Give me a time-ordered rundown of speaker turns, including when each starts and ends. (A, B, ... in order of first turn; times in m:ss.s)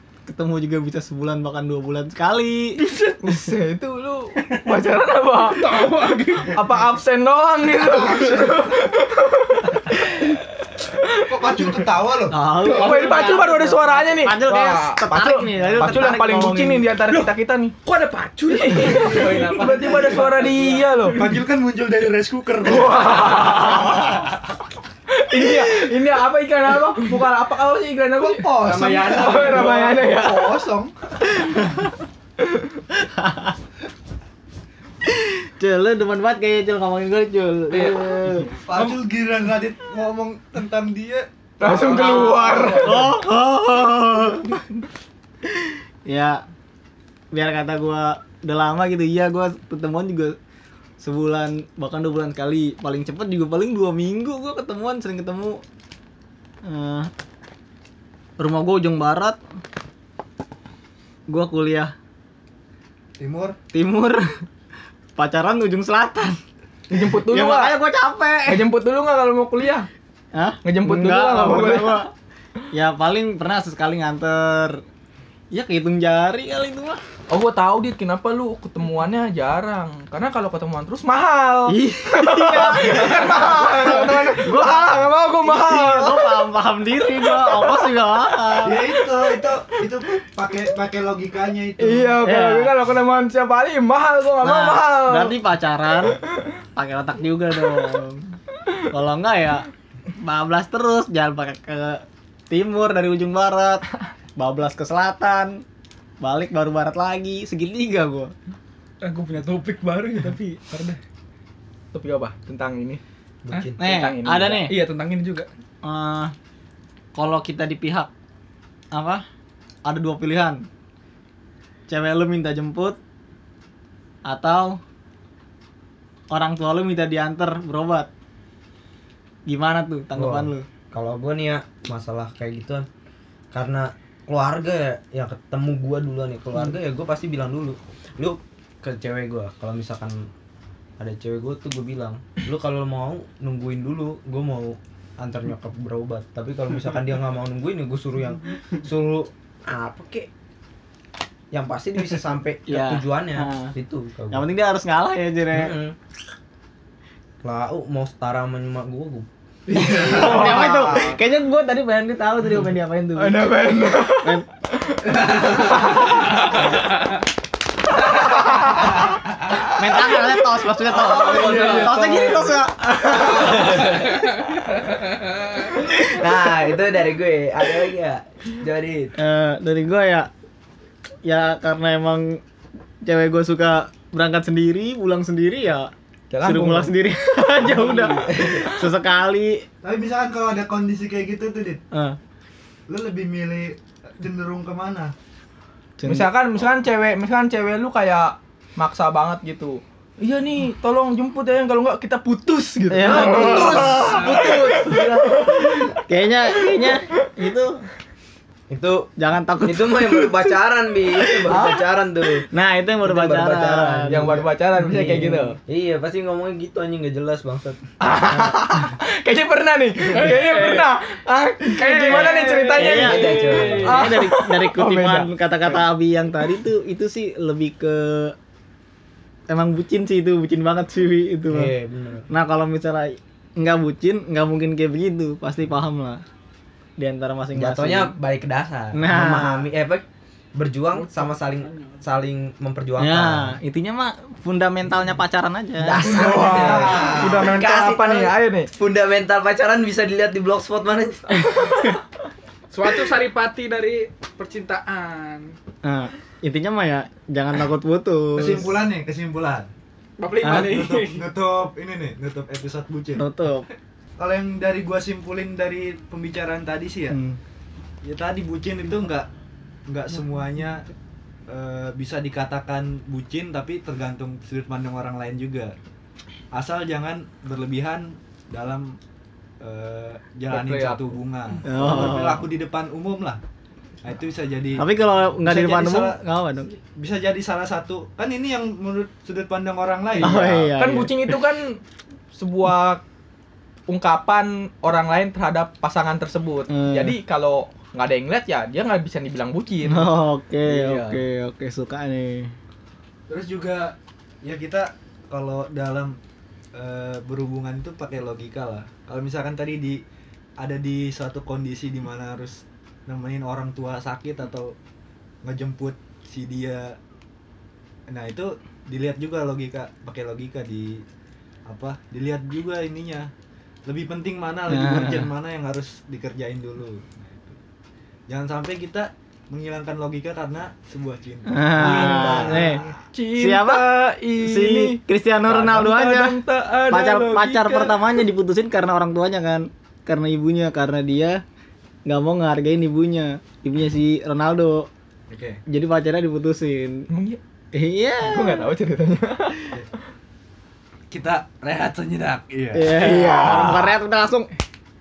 0:00.3-0:02.8 A
0:02.8-0:03.2 B
0:03.2-0:05.8 C
0:05.3-0:06.6 B
0:06.5-0:10.2 C
0:11.3-0:12.4 D
0:12.3-0:16.9 A
0:12.6-0:13.3 B
0:12.6-0:17.8 C
0:17.8-0:21.4 B
0:18.6-0:21.2 C
0:21.2-0:24.1 D
0:22.6-0:24.2 C
0:23.5-0:23.8 B
0:25.2-0:28.5 C
0:28.2-0:30.9 D
0:28.6-0:29.9 B
0:29.1-0:30.7 C
0:33.2-0:33.5 A
0:35.0-0:38.5 A
0:37.7-0:38.0 B
0:38.6-0:43.1 D
0:38.7-0:39.0 B
0:41.6-0:43.1 C
0:42.8-0:44.6 A
0:45.4-0:46.4 A
0:47.3-0:50.4 A
0:51.0-0:55.6 A
0:56.6-0:57.1 A
0:58.4-0:59.4 A
1:01.3-1:01.9 A
1:03.2-1:03.6 D
1:03.7-1:04.3 A
1:05.2-1:06.4 A
1:06.9-1:07.8 C
1:07.0-1:08.6 A
1:08.5-1:09.9 C
1:10.3-1:12.1 A
1:10.6-1:12.1 C
1:12.7-1:14.8 A
1:15.5-1:17.0 A
1:17.3-1:26.4 C
1:21.7-1:28.8 A
1:22.5-1:22.9 E
1:27.3-1:27.8 C
1:28.6-1:32.2 D
1:29.2-1:29.5 C
1:31.8-1:35.4 C
1:32.2-1:32.7 A
1:34.4-1:36.2 A
1:36.8-1:38.3 A
1:38.9-1:39.7 A
1:40.2-1:43.8 A
1:44.4-1:45.6 A
1:46.2-1:48.3 A
1:49.0-1:51.0 B
1:51.9-1:53.0 C
1:53.4-1:53.7 E
1:53.5-1:53.8 B
1:53.8-1:54.8 A
1:53.8-1:54.7 C
1:54.5-1:55.5 B
1:55.8-1:56.3 A
1:57.2-1:58.1 A
1:58.9-1:59.2 A
1:59.8-2:00.7 A
2:01.9-2:03.0 A
2:04.2-2:04.8 A
2:06.3-2:08.1 A
2:09.5-2:10.7 A
2:10.2-2:12.9 E
2:13.5-2:20.2 E
2:21.0-2:30.3 E
2:31.5-2:34.5 E
2:32.7-2:33.7 A
2:34.3-2:35.7 A
2:35.5-2:36.0 E
2:37.4-2:39.3 E
2:39.7-2:41.0 D
2:39.8-2:41.2 C
2:40.0-2:44.5 A
2:43.2-2:46.2 C
2:45.1-2:46.0 D
2:46.6-2:47.2 B
2:48.1-2:49.0 C
2:49.0-2:49.6 D
2:49.7-2:53.9 A
2:50.9-2:52.4 D
2:51.2-2:52.6 B
2:51.6-2:51.9 E
2:53.3-2:54.0 E
2:53.6-2:55.7 B
2:55.9-2:59.1 E
2:59.2-3:00.3 A
3:01.2-3:02.4 A
3:03.0-3:05.9 A
3:06.3-3:06.9 C
3:06.4-3:09.7 A
3:07.7-3:08.7 E
3:09.8-3:11.8 D
3:11.9-3:12.2 A
3:12.9-3:15.1 D
3:16.0-3:16.3 A
3:16.0-3:25.6 C
3:22.9-3:27.8 A
3:23.1-3:25.7 E
3:28.7-3:29.1 E
3:29.2-3:30.6 A
3:29.6-3:32.5 E
3:31.2-3:31.8 A
3:32.5-3:34.4 A
3:33.0-3:37.8 E
3:34.1-3:35.6 C
3:34.9-3:35.4 A
3:38.0-3:45.3 C
3:40.1-3:40.9 B
3:41.8-3:43.9 B
3:42.1-3:48.4 A
3:42.8-3:44.1 E
3:49.5-3:51.7 A
3:51.5-3:52.3 E
3:52.3-3:56.2 A
3:57.0-3:58.2 A
3:57.6-4:00.0 E
3:58.9-3:59.7 A
4:00.6-4:03.6 E
4:01.0-4:01.8 B
4:03.0-4:06.1 A
4:05.8-4:11.9 E
4:05.9-4:07.4 D
4:06.1-4:08.7 C
4:12.7-4:15.6 B
4:15.8-4:18.8 A
4:18.4-4:19.7 D
4:20.2-4:21.3 B
4:20.4-4:23.2 D
4:20.4-4:20.8 A
4:23.2-4:23.7 A
4:24.2-4:27.2 D
4:27.1-4:27.4 A
4:28.0-4:29.3 D
4:29.9-4:30.9 D
4:31.5-4:35.8 D
4:36.5-4:39.0 D
4:39.6-4:43.4 D
4:40.5-4:41.2 C
4:41.6-4:42.5 A
4:44.0-4:46.2 D
4:44.8-4:46.7 A
4:46.9-4:50.7 D
4:50.2-4:51.3 A
4:50.2-4:51.8 C
4:52.3-4:53.0 C
4:53.9-5:00.1 C
4:56.7-4:57.2 A
4:59.8-5:02.5 A
5:00.6-5:01.2 C
5:03.3-5:06.2 D
5:06.7-5:10.0 D
5:10.6-5:14.8 D
5:15.4-5:17.0 D
5:18.1-5:21.0 D
5:21.7-5:23.3 D
5:23.9-5:27.6 D
5:24.7-5:25.3 A
5:28.3-5:33.0 D
5:31.5-5:32.8 A
5:31.9-5:32.7 E
5:33.1-5:38.0 C
5:33.4-5:41.4 A
5:42.1-5:44.9 A
5:45.3-5:45.6 D
5:45.7-5:47.1 A
5:47.1-5:47.4 C
5:47.7-5:48.7 A
5:48.2-5:49.7 C
5:51.1-5:53.0 D
5:52.7-5:54.5 A
5:53.0-5:53.9 C